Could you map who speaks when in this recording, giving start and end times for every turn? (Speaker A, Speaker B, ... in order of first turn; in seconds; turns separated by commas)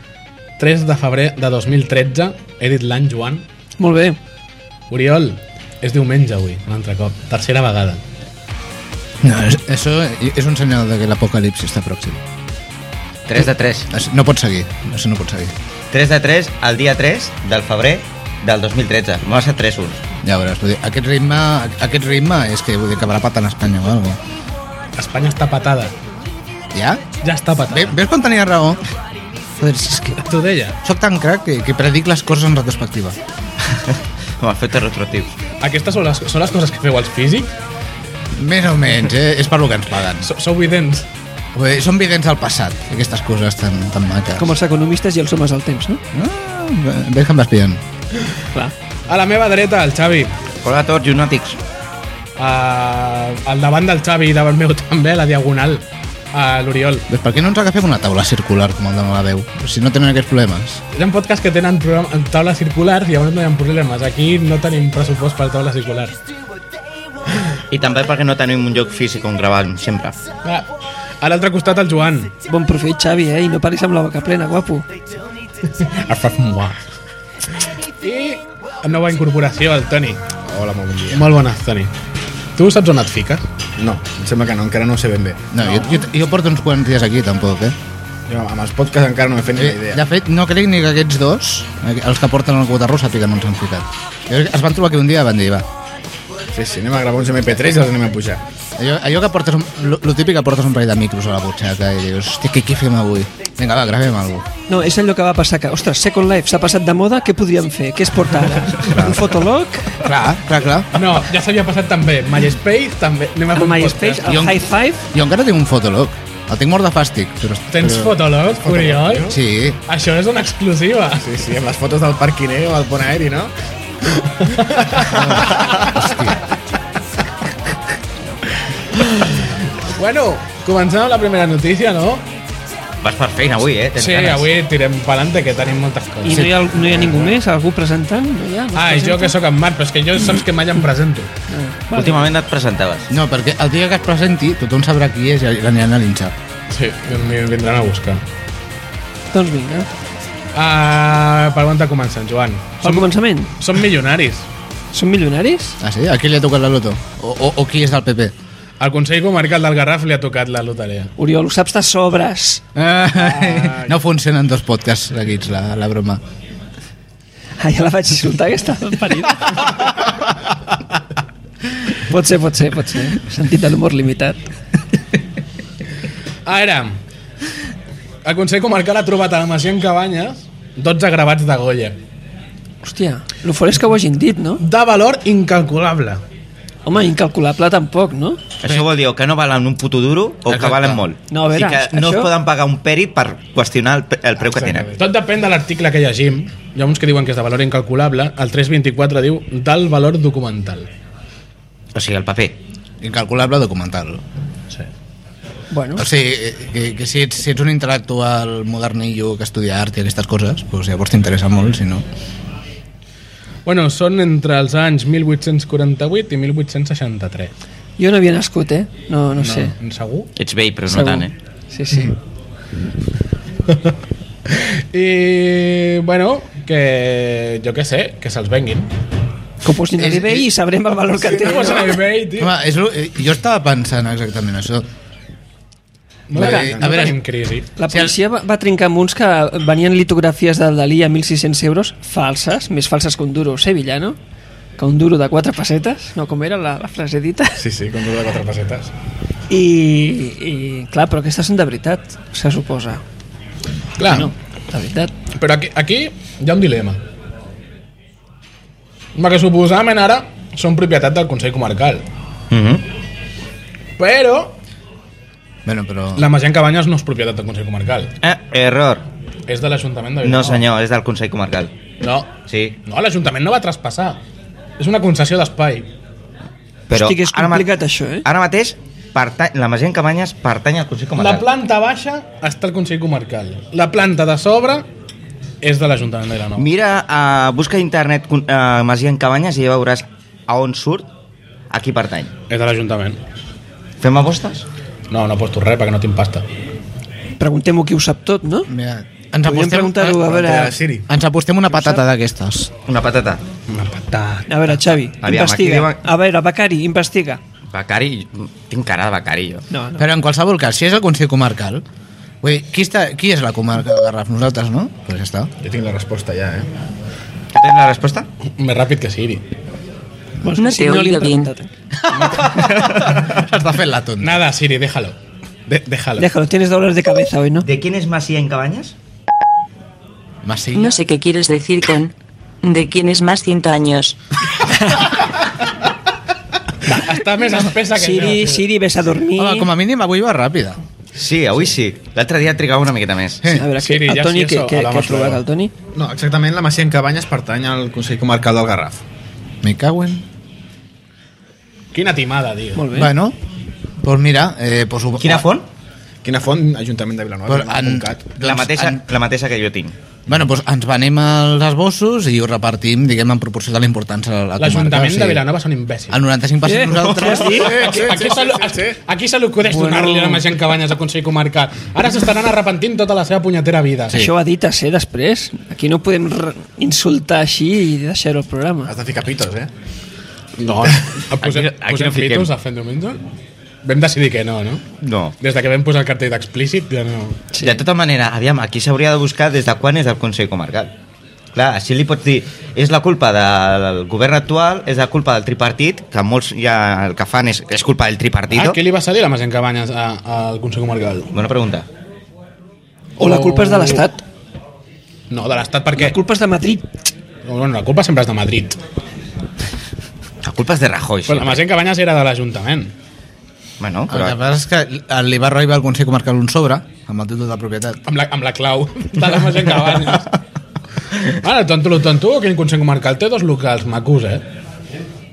Speaker A: 0.6-3.5, Speaker B: 3.8-4.2, Speaker A: 4.9-8.0, Speaker C: 9.2-12.2, Speaker D: 13.3-13.9, Speaker C: 13.9-15.5, Speaker D: 15.9-20.0, Speaker C: 20.2-24.2, Speaker A: 25.0-25.9, Speaker C: 26.7-27.0, Speaker A: 27.2-28.0, Speaker C: 27.7-28.8, Speaker C: 29.6-30.2, Speaker A: 30.2-30.8, Speaker C: 30.8-33.2, Speaker D: 33.7-35.3, Speaker A: 35.6-37.5, Speaker C: 38.3-40.3, Speaker A: 40.2-41.0, Speaker C: 41.5-44.5, Speaker B: 44.4-46.0, Speaker C: 46.1-47.8, Speaker A: 49.1-50.4, Speaker D: 50.6-51.6, Speaker A: 52.4-57.0, Speaker C: 57.1-60.8, Speaker A: 60.9-66.1, Speaker D: 67.7-70.2, Speaker A: 71.2-72.3, Speaker B: 72.5-74.9, Speaker A: 75.8-76.8, Speaker A: 78.0-80.2, Speaker E: 80.5-81.3, Speaker A: 81.1-81.9, Speaker A: 82.6-83.5, Speaker E: 83.8-85.9, Speaker C: 85.5-87.8, Speaker E: 88.3-90.0, Speaker C: 89.6-95.7, Speaker E: 96.5-98.4, Speaker C: 98.8-104.5, Speaker B: 104.7-110.0, Speaker C: 108.8-109.3, Speaker C: 110.0-111.1, Speaker A: 110.9-114.4, Speaker B: 113.5-115.0, Speaker C: 114.3-118.1, Speaker A: 117.7-121.3, Speaker E: 118.5-119.4, Speaker C: 119.3-119.8, Speaker E: 121.2-123.5, Speaker A: 124.3-125.9, Speaker C: 125.1-126.4, Speaker A: 128.9-132.3, Speaker D: 133.0-134.5, Speaker A: 134.0-136.5, Speaker B: 136.2-139.3, Speaker C: 136.3-137.3, Speaker A: 138.8-141.3, Speaker B: 141.5-142.3, Speaker D: 141.9-143.1, Speaker C: 143.1-146.3, Speaker A: 146.7-148.2, Speaker B: 149.3-149.9, Speaker A: 150.6-154.5, Speaker B: 152.8-153.5, Speaker B: 154.9-155.8, Speaker C: 155.8-158.3, Speaker A: 158.8-161.1, Speaker B: 161.2-162.6, Speaker C: 162.8-166.2, Speaker E: 163.4-163.8, Speaker B: 167.6-169.6, Speaker B: 171.9-174.5, Speaker A: 176.5-177.0, Speaker A: 178.2-182.0, Speaker B: 182.8-184.6, Speaker A: 184.6-186.2, Speaker B: 186.9-188.4, Speaker D: 188.6-194.9, Speaker C: 190.5-191.1, Speaker B: 191.3-192.3, Speaker E: 194.5-194.9, Speaker A: 195.0-200.9, Speaker D: 201.9-202.6, Speaker C: 203.0-204.2, Speaker B: 205.7-206.1, Speaker C: 206.0-212.1, Speaker A: 213.7-217.5, Speaker B: 218.0-219.7, Speaker A: 219.4-220.3, Speaker D: 220.4-221.3, Speaker B: 220.9-222.1, Speaker A: 224.6-228.9, Speaker B: 229.6-231.9, Speaker A: 231.2-232.5, Speaker C: 232.4-234.9, Speaker A: 236.3-237.7, Speaker C: 236.3-237.2, Speaker B: 236.4-237.1, Speaker B: 237.8-244.2, Speaker C: 237.9-238.2, Speaker B: 244.8-247.6, Speaker E: 247.6-248.9, Speaker B: 249.5-253.0, Speaker A: 254.0-254.3, Speaker B: 254.1-255.1, Speaker A: 255.3-257.0, Speaker A: 259.1-262.1, Speaker D: 262.5-262.9, Speaker A: 264.0-264.6, Speaker C: 265.7-266.3, Speaker A: 266.2-268.1, Speaker D: 268.2-269.1, Speaker A: 269.5-270.7, Speaker D: 270.2-271.7, Speaker A: 272.0-272.3, Speaker D: 272.5-272.8, Speaker A: 272.9-274.2, Speaker A: 274.8-275.9, Speaker D: 276.9-277.7, Speaker B: 276.9-278.3, Speaker D: 278.2-281.4, Speaker A: 281.2-284.9, Speaker A: 285.6-286.7, Speaker D: 286.6-291.1, Speaker D: 291.7-292.3, Speaker A: 292.5-293.2, Speaker D: 294.0-294.7, Speaker A: 295.1-296.5, Speaker B: 297.4-298.7, Speaker C: 298.7-300.3, Speaker B: 299.4-300.8, Speaker E: 300.2-301.1, Speaker C: 301.1-302.7, Speaker D: 302.9-303.4, Speaker A: 303.7-304.7, Speaker B: 304.5-307.4, Speaker D: 305.2-306.0, Speaker D: 307.7-309.6, Speaker B: 309.7-310.1, Speaker C: 310.0-311.8, Speaker C: 312.4-315.5, Speaker E: 315.6-316.7, Speaker D: 317.6-318.3, Speaker A: 318.6-319.4, Speaker B: 320.4-321.7, Speaker F: 320.6-321.5, Speaker A: 322.1-322.5, Speaker C: 322.2-324.4, Speaker A: 324.2-325.2, Speaker A: 325.7-326.3, Speaker B: 326.2-327.7, Speaker D: 327.6-328.9, Speaker C: 330.4-331.0, Speaker F: 330.7-334.2, Speaker A: 336.9-338.7, Speaker B: 337.9-339.7, Speaker C: 339.4-340.8, Speaker D: 341.1-343.4, Speaker C: 343.4-343.7, Speaker B: 343.5-345.7, Speaker A: 343.8-345.4, Speaker E: 345.9-349.0, Speaker C: 349.6-350.2, Speaker A: 351.9-352.9, Speaker B: 352.8-353.1, Speaker C: 352.9-353.4, Speaker C: 354.0-355.5, Speaker D: 355.2-355.7, Speaker E: 356.2-358.2, Speaker C: 357.5-359.1, Speaker D: 358.4-360.0, Speaker C: 360.3-365.4, Speaker A: 364.6-366.2, Speaker C: 366.1-368.2, Speaker B: 366.6-367.8, Speaker A: 367.4-374.3, Speaker E: 367.5-369.0, Speaker B: 369.6-370.5, Speaker B: 374.1-378.9, Speaker E: 378.9-379.7, Speaker A: 380.6-383.2, Speaker D: 381.4-382.5, Speaker A: 383.8-384.9, Speaker D: 385.0-385.3, Speaker A: 385.4-387.5, Speaker D: 387.6-390.9, Speaker D: 391.5-398.8, Speaker A: 398.5-401.3, Speaker D: 401.3-401.9, Speaker B: 403.2-404.2, Speaker A: 403.2-404.1, Speaker A: 405.3-406.2, Speaker B: 406.0-406.9, Speaker A: 407.4-408.8, Speaker D: 410.4-411.6, Speaker A: 411.3-412.9, Speaker D: 413.8-414.4, Speaker C: 414.1-418.0, Speaker A: 418.1-420.3, Speaker A: 421.3-424.4